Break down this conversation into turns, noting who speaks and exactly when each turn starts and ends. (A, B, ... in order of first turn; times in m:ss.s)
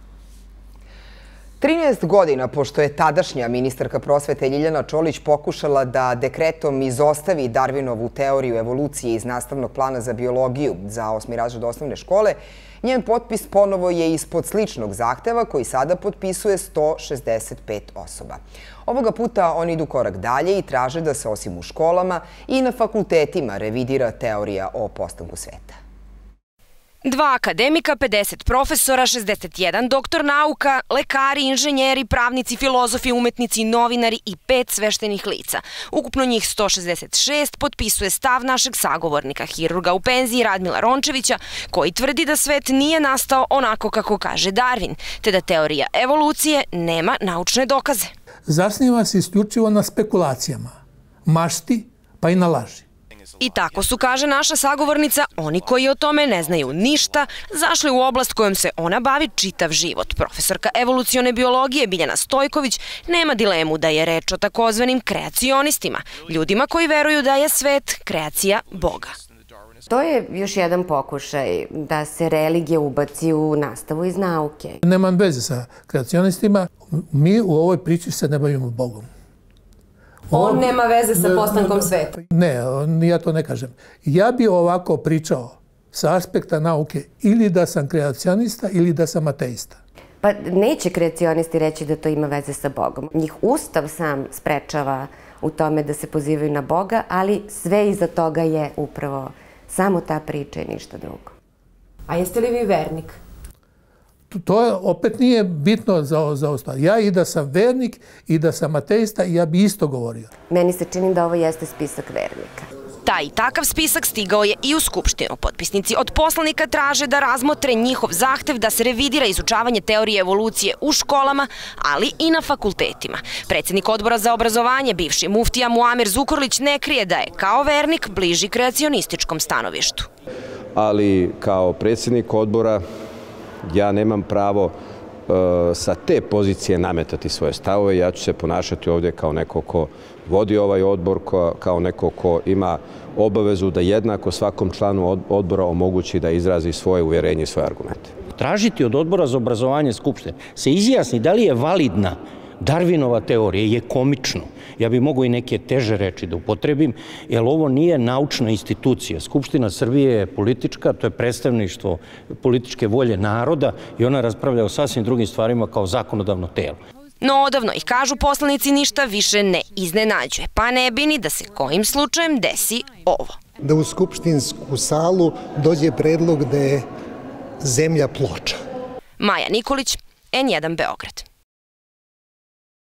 0:01.6-0:25.8 A
0:27.0-0:48.1 B
0:48.5-0:50.8 C
0:51.3-0:52.8 C
0:53.4-1:09.2 B
1:09.9-1:14.8 D
1:14.8-1:19.1 C
1:20.3-1:29.8 C
1:30.2-1:41.3 D
1:42.1-1:43.0 D
1:44.3-1:50.3 C
1:50.5-1:52.7 D
1:53.0-2:10.1 B
2:10.8-2:12.8 E
2:13.6-2:14.8 E
2:15.3-2:28.2 E
2:28.4-2:46.8 F
2:47.2-2:53.4 B
2:53.6-2:56.8 G
2:57.6-2:58.6 G
2:59.2-3:01.2 B